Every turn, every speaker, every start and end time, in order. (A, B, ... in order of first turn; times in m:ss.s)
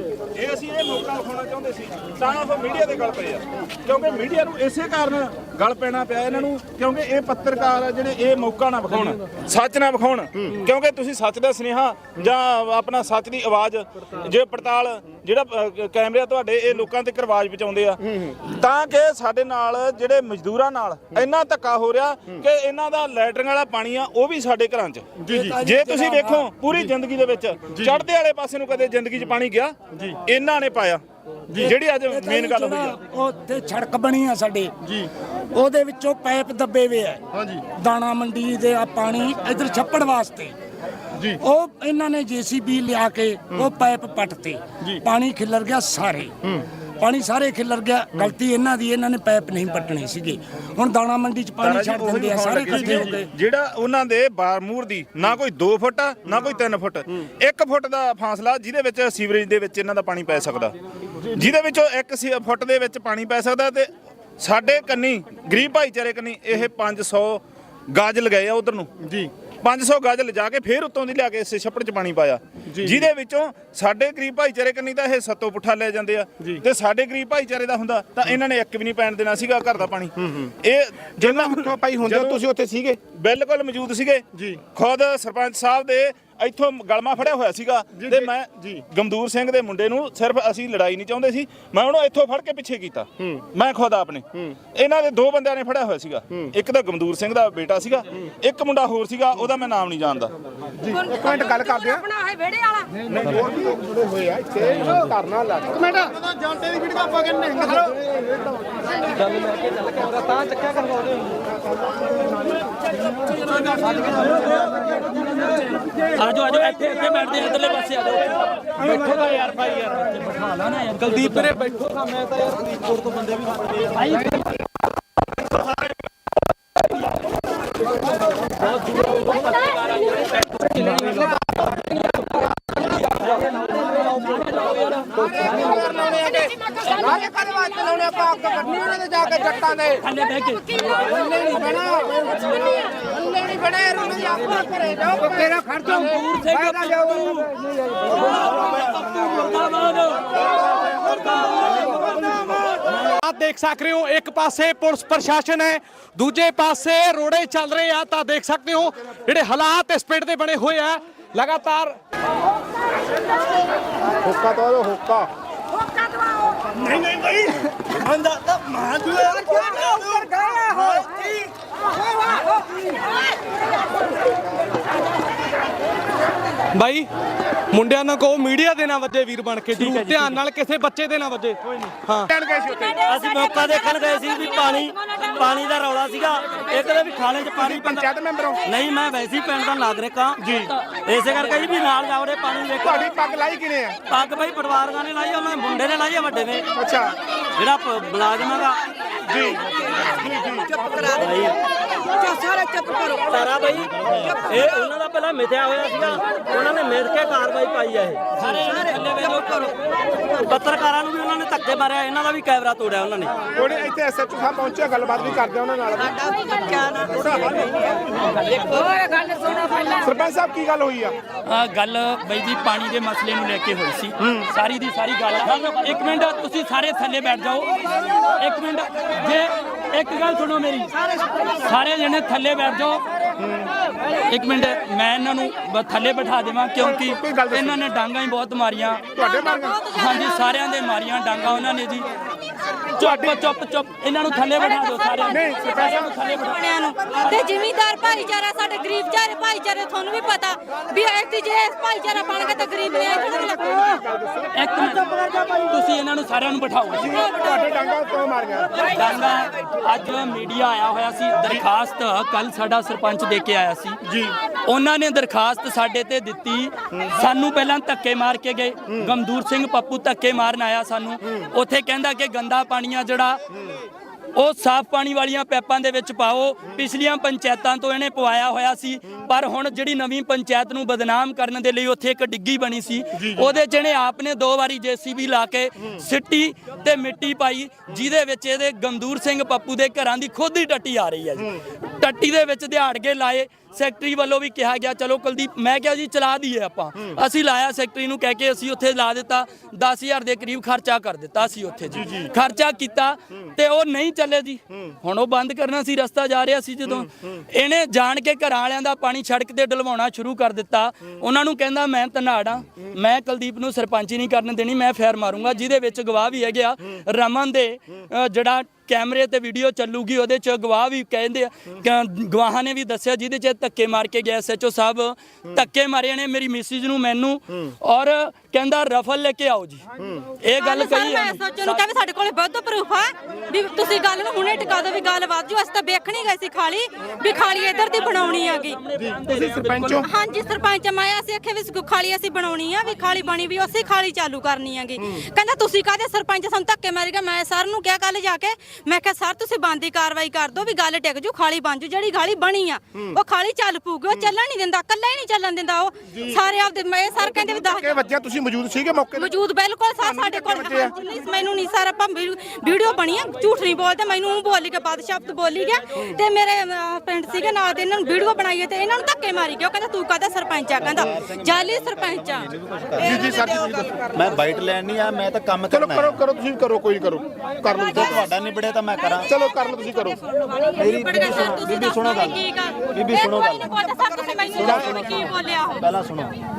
0:00.4-0:25.1 A
0:18.0-0:18.4 B
0:25.2-0:25.6 B
0:25.3-0:26.5 C
0:25.6-0:29.7 A
0:27.7-0:28.0 B
0:29.9-0:30.2 B
0:30.2-0:31.0 A
0:31.6-0:33.0 A
0:32.1-0:34.7 C
0:34.8-0:35.1 B
0:35.5-0:37.2 C
0:37.3-0:37.6 B
0:37.8-0:40.5 C
0:41.2-0:41.4 B
0:41.4-0:46.3 C
0:47.0-0:53.3 C
0:51.6-1:00.7 A
0:52.7-0:53.2 B
1:01.3-1:08.9 A
1:09.0-1:09.3 B
1:09.6-1:22.4 A
1:12.7-1:13.0 B
1:20.2-1:20.5 B
1:21.2-1:23.0 B
1:23.1-1:40.3 A
1:24.3-1:24.6 B
1:27.9-1:28.8 B
1:40.8-1:42.0 B
1:40.9-1:43.0 D
1:43.0-1:48.0 B
1:49.2-1:51.4 E
1:53.6-1:54.8 E
1:56.1-1:59.2 F
1:58.9-2:00.0 E
2:00.1-2:01.6 F
2:01.0-2:04.3 E
2:04.0-2:04.3 F
2:08.9-2:11.2 F
2:10.7-2:11.2 E
2:14.0-2:15.8 F
2:15.2-2:20.0 B
2:16.8-2:17.3 F
2:19.2-2:21.4 F
2:21.0-2:22.2 B
2:23.0-2:25.9 B
2:25.4-2:27.5 F
2:28.0-2:32.4 F
2:33.1-2:42.0 E
2:44.2-2:45.3 B
2:46.8-2:50.2 B
2:56.7-2:57.1 E
2:57.7-3:02.3 E
2:59.7-3:00.4 F
3:02.3-3:03.1 B
3:03.0-3:08.1 G
3:07.6-3:08.6 B
3:08.6-3:13.0 G
3:10.4-3:10.7 B
3:12.8-3:14.0 B
3:14.1-3:16.6 G
3:16.8-3:17.2 B
3:17.6-3:18.8 G
3:19.3-3:21.1 B
3:21.1-3:21.6 G
3:23.2-3:28.2 G
3:28.4-3:29.7 F
3:30.4-3:33.3 G
3:33.5-3:38.6 B
3:38.2-3:38.9 F
3:40.0-3:41.2 B
3:41.5-3:47.7 F
3:48.4-3:50.9 F
3:51.6-3:53.0 F
3:53.4-3:53.7 B
3:54.3-3:59.1 F
3:56.8-3:57.8 B
3:59.2-3:59.8 B
3:59.2-4:00.4 H
4:00.0-4:02.0 F
4:03.0-4:07.5 F
4:03.0-4:03.3 B
4:04.6-4:14.0 H
4:05.3-4:06.1 B
4:13.0-4:14.5 B
4:14.5-4:17.2 F
4:17.0-4:19.0 B
4:18.8-4:24.0 F
4:24.0-4:24.4 B
4:24.6-4:33.4 F
4:34.4-5:29.8 F
4:43.1-4:43.5 B
5:02.0-5:02.3 B
5:30.0-5:30.2 B
5:30.4-5:31.8 F
5:30.6-5:38.8 H
5:37.6-5:40.0 G
5:39.0-5:40.1 B
5:39.4-5:40.0 F
5:40.0-5:57.9 H
5:56.1-5:56.4 B
5:57.3-5:59.3 B
5:59.2-6:13.7 H
6:00.0-6:00.9 B
6:10.8-6:13.4 I
6:13.0-6:14.2 B
6:14.1-6:16.2 I
6:15.7-6:18.3 B
6:17.9-6:19.3 I
6:19.2-6:20.2 B
6:20.7-6:25.9 H
6:20.8-6:23.7 I
6:24.5-6:26.4 I